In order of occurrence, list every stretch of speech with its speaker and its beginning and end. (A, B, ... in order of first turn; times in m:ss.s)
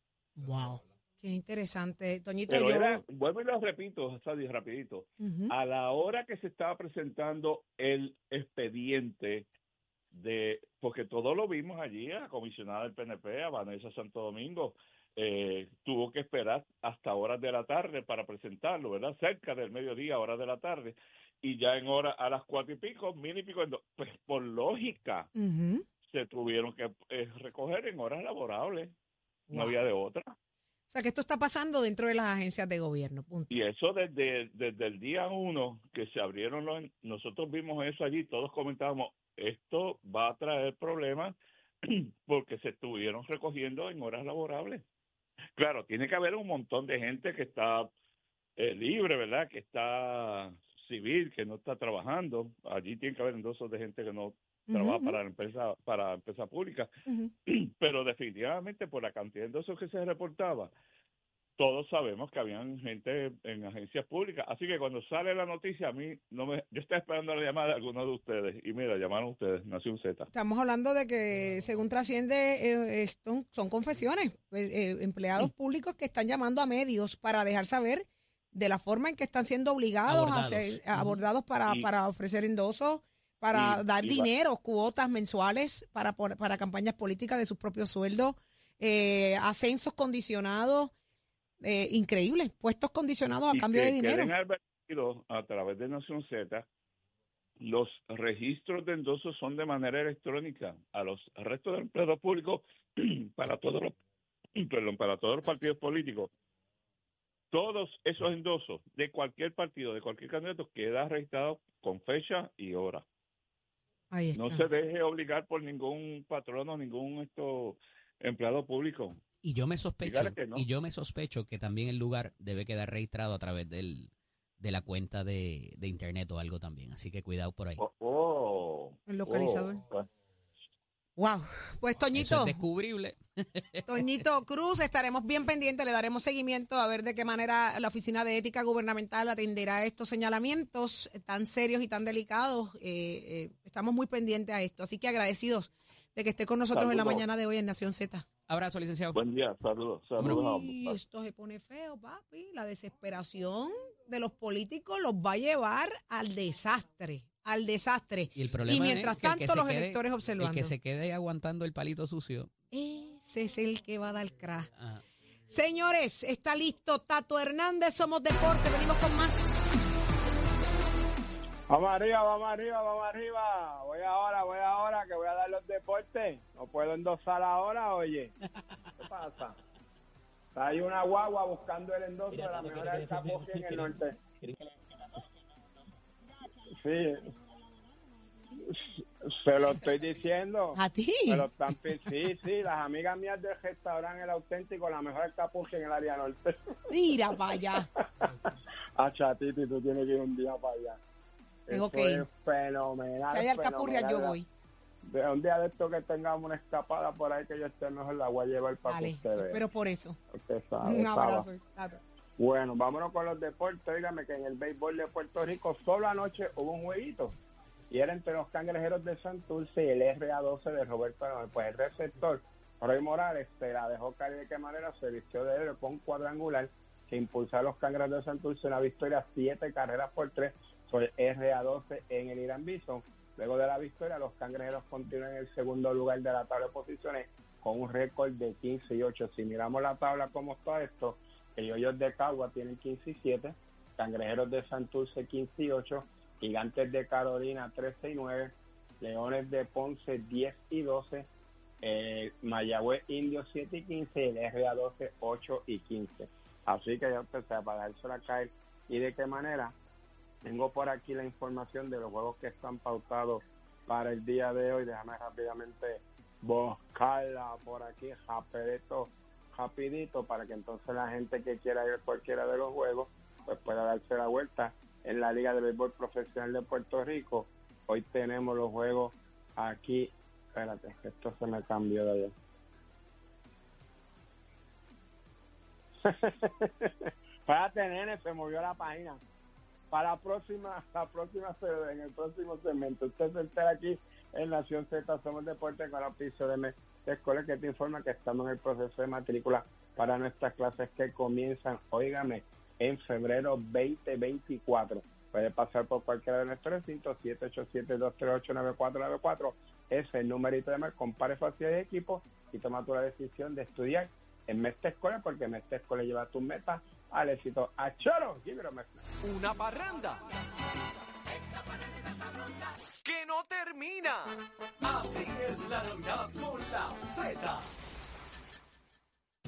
0:00.4-0:03.0 A
0:02.5-0:09.5 B
0:05.2-0:05.5 A
0:10.1-0:25.3 B
0:25.4-0:25.8 A
0:26.1-0:28.9 B
0:29.5-0:29.8 A
0:29.5-0:30.3 B
0:30.9-0:33.6 A
0:33.5-0:44.8 B
0:45.6-0:47.9 B
0:48.6-0:56.9 B
0:54.7-0:55.2 A
0:57.1-0:57.3 A
0:57.5-1:00.7 B
1:01.6-1:10.3 B
1:10.3-1:30.9 A
1:20.1-1:21.2 C
1:23.5-1:24.3 B
1:31.6-1:34.3 A
1:33.5-1:36.6 B
1:37.6-1:44.0 B
1:44.6-1:46.3 B
1:47.5-1:53.0 B
1:54.1-1:54.6 A
1:54.4-1:59.2 B
1:59.4-2:07.8 C
2:00.0-2:00.6 B
2:07.8-2:10.1 B
2:09.1-2:09.8 A
2:11.2-2:12.6 A
2:12.2-2:14.0 C
2:13.9-2:28.2 A
2:26.7-2:27.2 B
2:28.5-2:29.2 C
2:29.1-2:31.0 B
2:30.2-2:40.7 A
2:38.4-2:42.5 C
2:42.7-2:44.7 A
2:44.8-2:45.0 C
2:45.5-2:49.7 A
2:51.7-2:58.3 D
2:59.0-2:59.6 D
3:00.6-3:04.2 D
3:02.3-3:03.9 C
3:06.8-3:07.3 D
3:08.6-3:16.7 D
3:10.8-3:12.3 A
3:16.9-3:17.9 A
3:18.0-3:21.0 D
3:21.7-3:24.4 D
3:21.7-3:22.2 A
3:23.3-3:24.5 A
3:25.0-3:29.6 D
3:28.9-3:30.2 A
3:30.3-3:31.5 D
3:30.8-3:32.0 A
3:32.4-3:37.4 D
3:37.9-4:11.3 D
4:11.8-4:19.8 D
4:20.4-4:42.3 D
4:46.0-4:49.2 D
4:49.9-5:19.1 D
5:19.2-5:20.2 E
5:23.0-5:27.7 E